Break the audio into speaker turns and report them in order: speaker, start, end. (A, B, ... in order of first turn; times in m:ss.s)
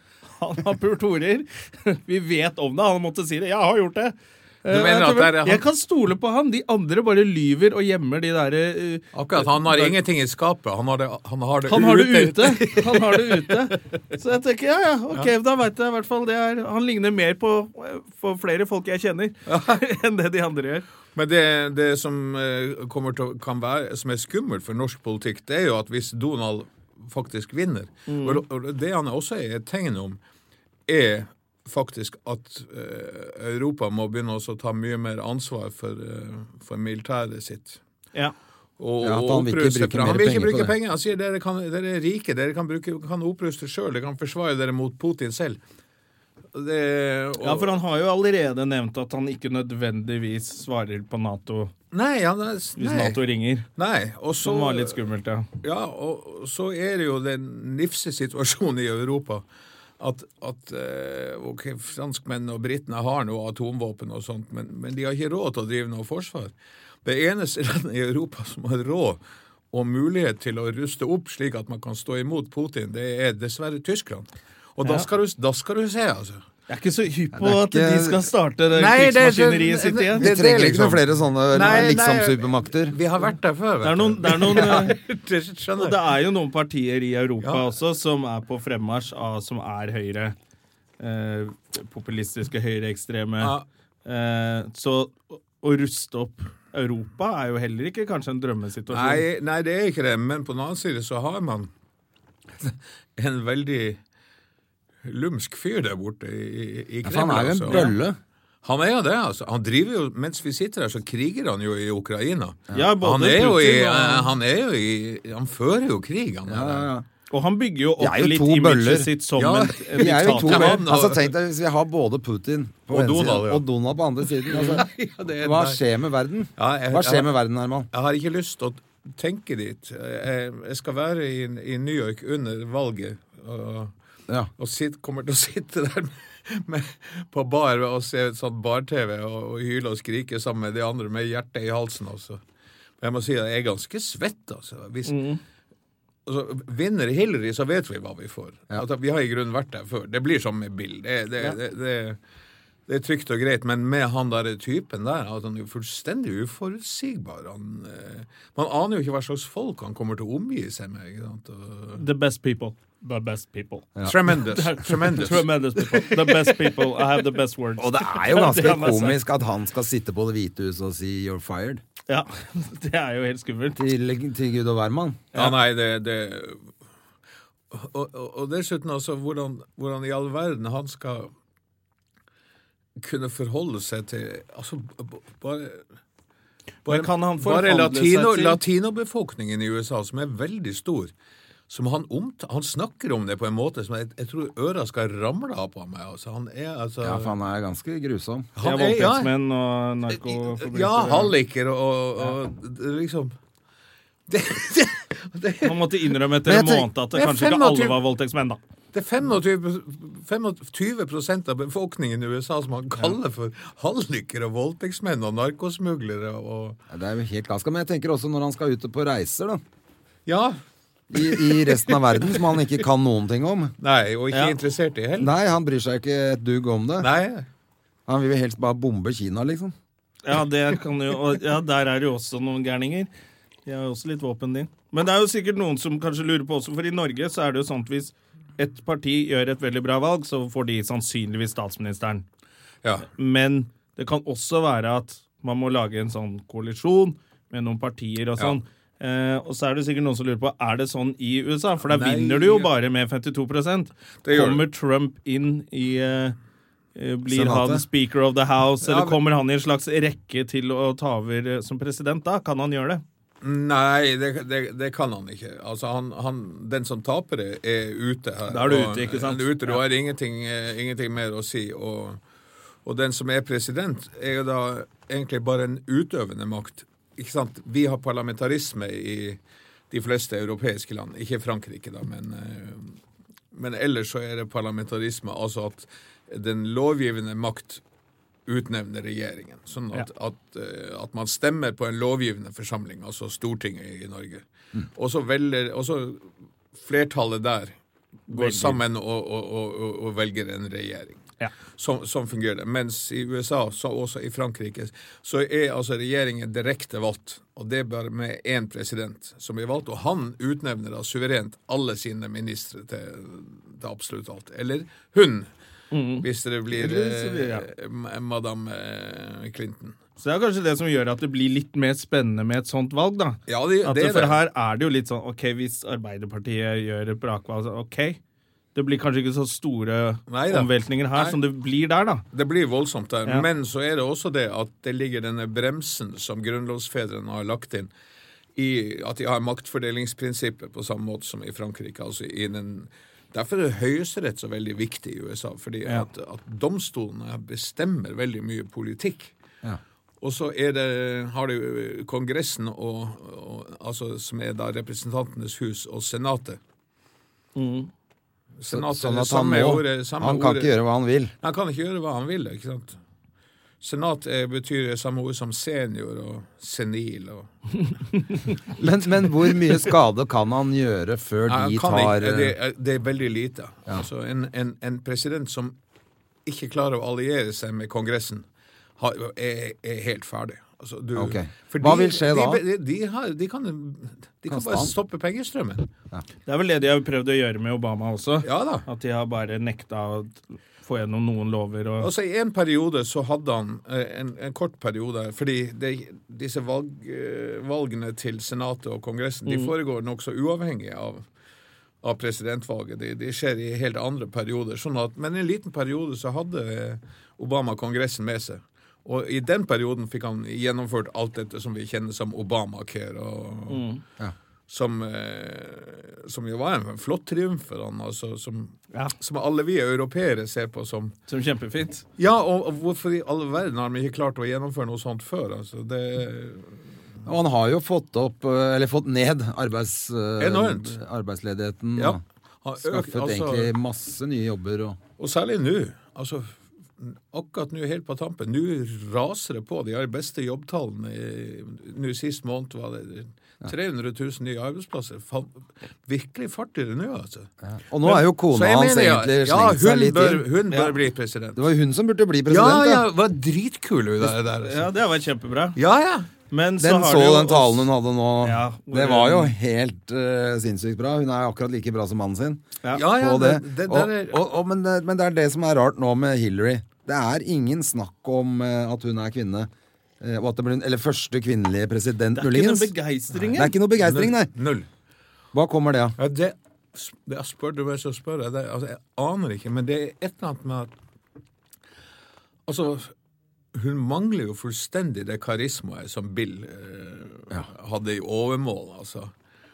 0:00.4-0:10.0 A
0:04.7-0:05.6 B
0:09.1-0:13.8 B
0:11.7-0:20.8 A
0:19.5-0:19.8 B
0:21.1-0:30.2 B
0:28.1-0:28.4 A
0:30.9-0:37.8 B
0:38.8-0:45.6 B
0:39.0-0:40.7 C
0:46.5-0:47.7 B
0:47.4-0:51.7 A
0:51.9-0:53.2 B
0:52.8-0:53.6 A
0:53.8-0:55.0 B
0:54.4-0:55.5 A
0:55.6-0:59.4 B
1:00.0-1:06.5 B
1:07.0-1:09.2 B
1:09.7-1:16.4 B
1:16.7-1:20.3 A
1:17.3-1:18.2 C
1:18.7-1:26.0 B
1:20.1-1:23.0 C
1:23.8-1:25.0 A
1:25.8-1:30.3 A
1:31.0-1:33.5 A
1:33.4-1:33.6 B
1:34.0-1:39.2 A
1:38.9-1:41.7 B
1:42.6-1:44.0 B
1:45.0-1:47.9 B
1:47.0-1:48.2 C
1:48.6-1:56.9 B
1:52.7-1:54.3 A
1:56.5-1:57.0 C
1:57.3-2:00.8 A
1:58.0-1:59.1 C
1:59.4-2:01.3 B
2:00.0-2:04.9 C
2:02.9-2:03.6 B
2:04.4-2:05.8 B
2:05.4-2:07.9 C
2:06.6-2:07.3 B
2:07.9-2:13.9 B
2:14.6-2:22.4 B
2:23.0-2:25.2 B
2:25.0-2:25.4 A
2:26.2-2:32.2 B
2:32.9-2:42.0 B
2:42.0-2:49.2 A
2:44.0-2:46.5 B
2:47.8-2:51.8 C
2:52.1-2:53.8 A
2:53.8-2:55.2 C
2:55.3-2:56.6 B
2:57.7-3:01.3 B
3:03.0-3:05.8 B
3:06.8-3:08.6 A
3:06.8-3:11.1 B
3:11.7-3:17.3 B
3:17.0-3:18.5 C
3:18.6-3:19.3 B
3:18.6-3:21.3 A
3:20.1-3:23.3 B
3:24.3-3:26.0 B
3:25.6-3:28.6 A
3:26.4-3:26.9 C
3:27.1-3:28.0 B
3:28.9-3:36.8 B
3:36.9-3:39.6 C
3:40.3-3:40.6 B
3:41.1-3:43.7 C
3:41.2-3:41.8 B
3:43.8-3:45.3 B
3:45.2-3:47.1 C
3:47.0-3:47.4 B
3:48.1-3:49.7 C
3:50.2-3:53.1 A
3:53.6-4:02.2 A
4:03.1-4:16.3 A
4:11.8-4:12.7 B
4:14.2-4:14.6 B
4:16.9-4:23.0 A
4:17.3-4:17.8 C
4:18.8-4:19.2 B
4:23.4-4:32.2 B
4:28.5-4:29.8 A
4:32.8-4:39.4 B
4:39.9-4:43.0 B
4:43.5-4:47.8 B
4:48.5-4:57.7 B
4:58.3-4:58.8 A
4:58.3-5:01.2 B
5:01.8-5:15.5 B
5:15.9-5:17.7 A
5:16.2-5:20.0 B
5:20.2-5:28.2 A
5:23.5-5:24.4 B
5:28.7-5:32.2 A
5:30.3-5:31.4 B
5:32.3-5:37.9 B
5:38.6-5:49.3 B
5:50.2-5:56.6 B
5:57.6-5:57.9 A
5:58.6-6:00.7 B
5:58.7-6:01.3 C
6:01.4-6:03.0 B
6:03.8-6:07.5 B
6:08.8-6:12.6 C
6:11.4-6:15.8 B
6:16.4-6:18.4 B
6:19.0-6:25.9 B
6:21.2-6:22.6 C
6:24.5-6:24.9 C
6:26.5-6:32.1 A
6:28.4-6:28.8 B
6:32.0-6:41.2 B
6:39.4-6:39.7 A
6:42.0-6:53.8 B
6:53.7-6:54.0 A
6:54.7-7:01.1 B
7:01.3-7:02.0 A
7:02.2-7:06.8 B
7:07.2-7:12.2 C
7:10.4-7:11.0 B
7:12.0-7:13.7 B
7:12.8-7:15.0 C
7:15.2-7:27.5 B
7:27.6-7:30.4 C
7:28.0-7:31.6 B
7:31.6-7:33.0 C
7:32.5-7:34.9 B
7:34.6-7:35.8 A
7:35.8-7:36.3 B
7:36.5-7:37.9 A
7:36.8-7:52.9 C
7:38.4-7:39.5 A
7:42.9-7:44.4 B
7:52.3-7:53.7 A
7:53.5-7:54.5 C
7:54.0-7:54.9 B
7:55.5-7:56.2 C
7:56.2-8:00.9 B
8:02.7-8:03.1 B
8:03.7-8:09.3 B